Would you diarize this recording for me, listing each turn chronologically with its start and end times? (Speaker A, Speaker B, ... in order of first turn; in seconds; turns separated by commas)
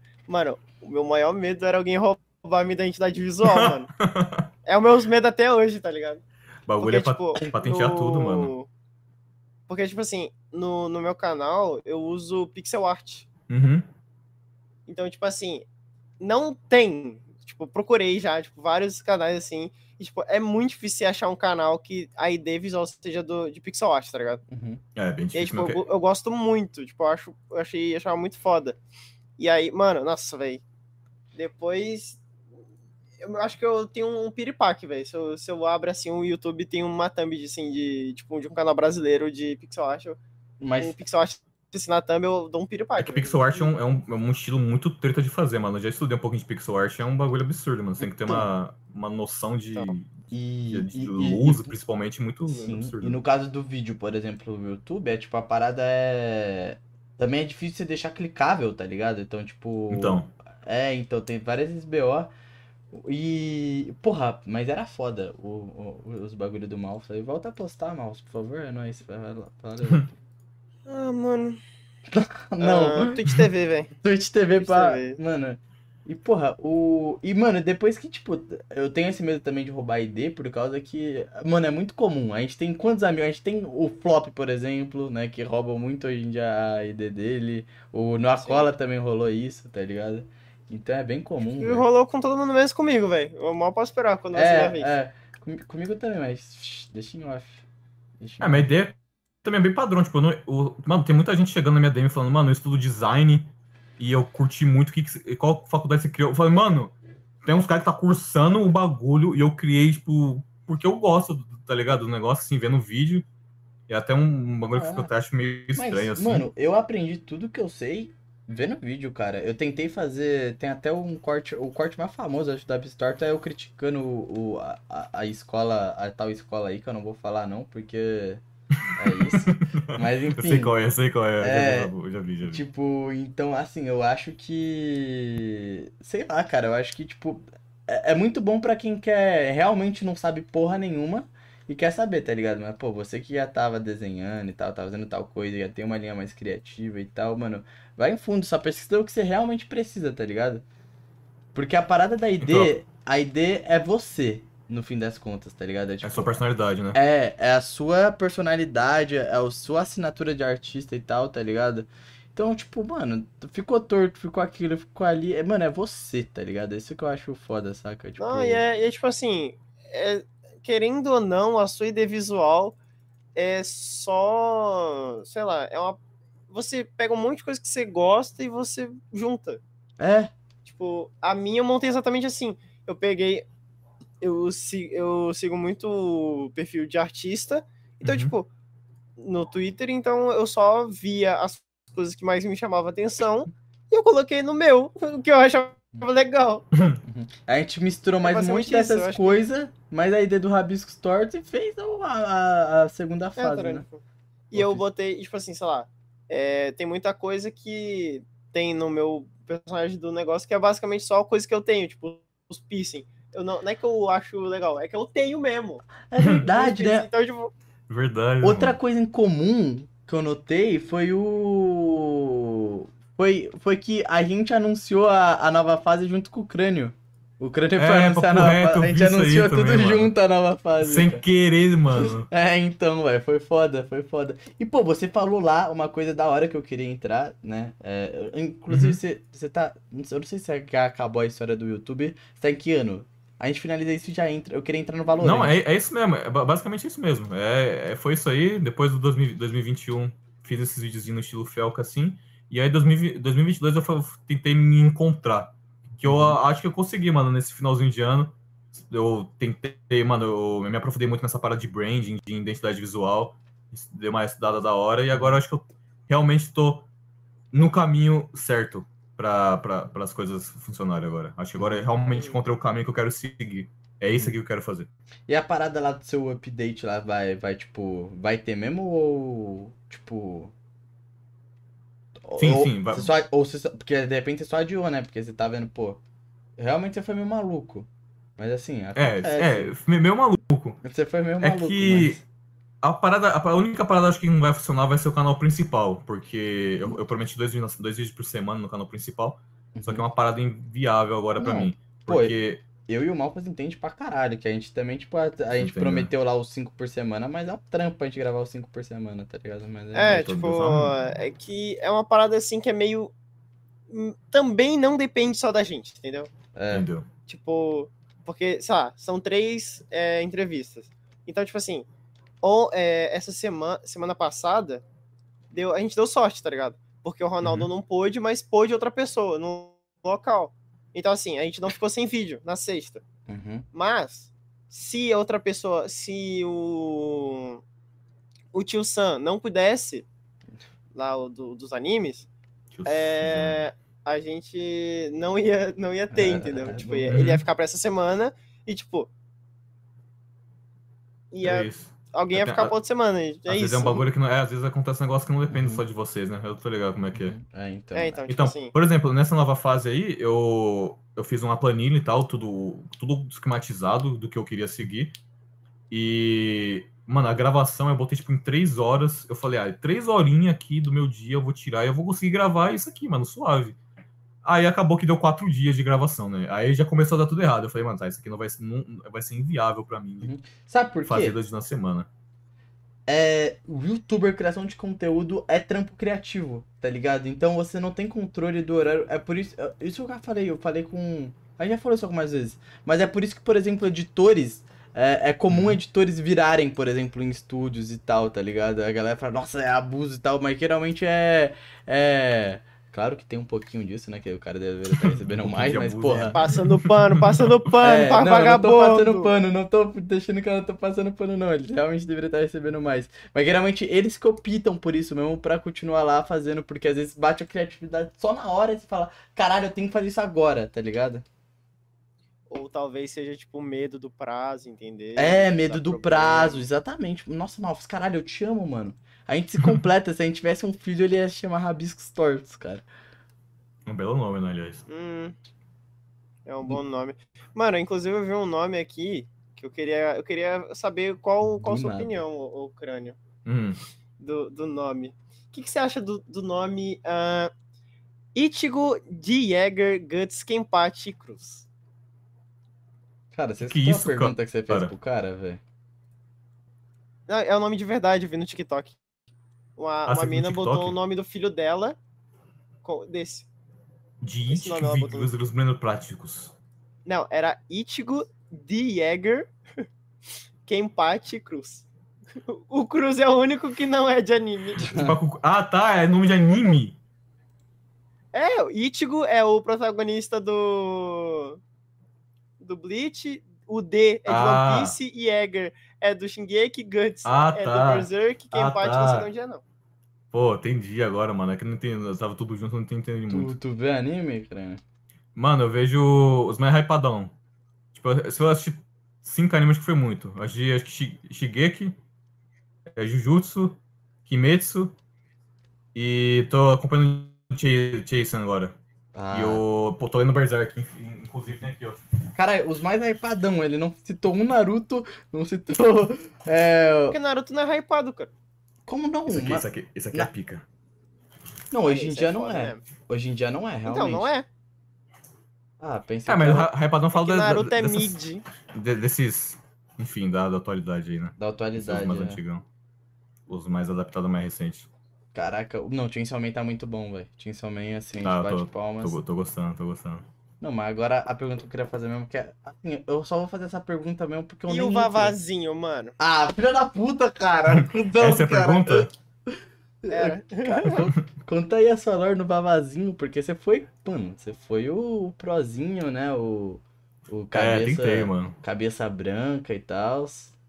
Speaker A: 0.3-3.9, Speaker B: 3.4-4.5, Speaker A: 4.7-6.2, Speaker B: 6.7-8.5, Speaker A: 6.8-8.7, Speaker A: 9.7-13.2, Speaker B: 13.5-13.9, Speaker A: 14.9-15.7, Speaker A: 16.2-24.4, Speaker C: 24.5-24.8, Speaker B: 24.9-25.8, Speaker A: 25.3-28.8, Speaker A: 29.4-30.6, Speaker A: 31.3-32.2, Speaker A: 33.2-40.2, Speaker C: 40.6-41.0, Speaker A: 40.8-43.7, Speaker B: 43.0-53.2, Speaker C: 48.0-48.5, Speaker C: 50.3-51.7, Speaker C: 52.5-62.3, Speaker B: 59.9-60.3, Speaker C: 62.9-70.1, Speaker A: 70.9-71.6, Speaker C: 72.1-73.2, Speaker A: 72.6-73.9, Speaker C: 74.0-91.8, Speaker A: 74.6-75.2, Speaker A: 88.4-88.7, Speaker A: 91.5-94.9, Speaker C: 94.3-97.6, Speaker C: 98.2-98.7, Speaker B: 98.4-106.9, Speaker B: 107.4-113.2, Speaker B: 113.9-116.5, Speaker C: 114.7-115.1, Speaker C: 115.7-128.4, Speaker B: 128.7-132.6, Speaker C: 128.9-130.7, Speaker C: 131.4-131.9, Speaker C: 132.4-150.6, Speaker C: 151.5-156.3, Speaker B: 152.4-152.7, Speaker B: 156.0-157.0, Speaker C: 156.9-168.6, Speaker A: 168.2-172.8, Speaker A: 173.3-176.0, Speaker A: 176.5-179.6, Speaker C: 180.0-180.3, Speaker A: 180.6-183.4, Speaker A: 184.2-188.5, Speaker B: 188.0-188.3, Speaker A: 189.2-196.7, Speaker B: 196.7-197.0, Speaker C: 197.0-203.8, Speaker A: 198.2-199.4, Speaker A: 203.4-204.0, Speaker A: 204.5-215.8, Speaker C: 204.5-204.8, Speaker C: 216.1-217.1, Speaker A: 216.4-217.5, Speaker B: 217.9-218.8, Speaker C: 218.4-231.2, Speaker B: 227.8-230.1, Speaker B: 230.8-232.3, Speaker C: 231.9-245.6, Speaker B: 238.7-239.0, Speaker B: 245.2-266.9, Speaker C: 256.0-256.4, Speaker C: 265.1-265.4, Speaker B: 267.5-274.9, Speaker C: 271.6-271.8, Speaker C: 275.3-280.5, Speaker C: 282.2-286.0, Speaker B: 282.4-283.1, Speaker C: 286.6-287.9, Speaker C: 288.4-289.7, Speaker B: 288.9-290.8, Speaker C: 290.8-292.2, Speaker B: 291.4-292.2, Speaker B: 292.8-302.6, Speaker C: 299.7-300.1, Speaker C: 301.4-310.3, Speaker B: 305.6-306.1, Speaker A: 309.9-313.1, Speaker B: 310.1-310.9, Speaker A: 313.9-316.3, Speaker C: 316.5-316.9, Speaker B: 316.7-317.1, Speaker A: 317.3-321.9, Speaker A: 322.4-324.8, Speaker A: 325.5-333.0, Speaker C: 333.3-333.7, Speaker A: 333.7-337.6, Speaker A: 338.5-340.1, Speaker A: 340.9-342.3, Speaker B: 342.7-343.6, Speaker A: 342.9-349.1, Speaker C: 346.1-347.2, Speaker B: 347.1-347.4, Speaker A: 351.3-354.0, Speaker B: 351.4-352.7, Speaker B: 353.5-357.3, Speaker C: 355.5-355.8, Speaker C: 357.1-358.2, Speaker A: 357.9-358.7, Speaker B: 358.3-365.1, Speaker B: 365.9-373.8, Speaker B: 374.4-380.3, Speaker C: 380.2-381.4, Speaker B: 381.1-382.1, Speaker C: 383.1-406.4, Speaker B: 395.5-395.8, Speaker B: 404.9-407.6, Speaker A: 406.3-409.3, Speaker C: 407.8-421.2, Speaker A: 422.5-426.6, Speaker C: 425.1-432.8, Speaker B: 433.9-434.8, Speaker A: 434.9-435.3, Speaker A: 436.4-443.2, Speaker C: 441.6-442.2, Speaker B: 443.4-443.8, Speaker A: 444.2-447.5, Speaker A: 448.3-451.6, Speaker C: 453.3-455.6, Speaker B: 453.6-454.9, Speaker A: 457.3-459.0, Speaker A: 459.8-462.0, Speaker B: 460.1-461.0, Speaker A: 462.8-463.4, Speaker B: 464.2-466.5, Speaker A: 464.5-465.3, Speaker A: 467.1-469.5, Speaker A: 470.7-471.8, Speaker A: 472.5-474.9, Speaker C: 474.8-475.2, Speaker B: 474.8-477.0, Speaker A: 478.3-481.6, Speaker A: 482.6-489.6, Speaker B: 484.2-484.9, Speaker B: 487.2-489.3, Speaker B: 490.3-493.5, Speaker C: 493.3-494.8, Speaker B: 495.3-497.3, Speaker B: 497.9-502.0, Speaker B: 502.9-504.9, Speaker B: 505.9-508.8, Speaker C: 509.1-509.6, Speaker B: 509.3-512.0, Speaker C: 512.3-517.2, Speaker A: 517.1-518.3, Speaker C: 518.9-520.3, Speaker B: 519.3-520.6, Speaker C: 521.7-524.3, Speaker A: 521.9-522.8, Speaker A: 523.9-524.5, Speaker C: 525.8-526.7, Speaker B: 526.3-528.2, Speaker A: 527.1-528.4, Speaker B: 528.7-532.6, Speaker C: 531.4-532.4, Speaker B: 533.5-534.9, Speaker C: 535.3-539.2, Speaker B: 538.2-540.2, Speaker C: 540.6-545.3, Speaker A: 544.7-546.1, Speaker C: 546.2-560.5, Speaker B: 547.7-549.1, Speaker A: 550.1-550.9, Speaker B: 557.5-558.5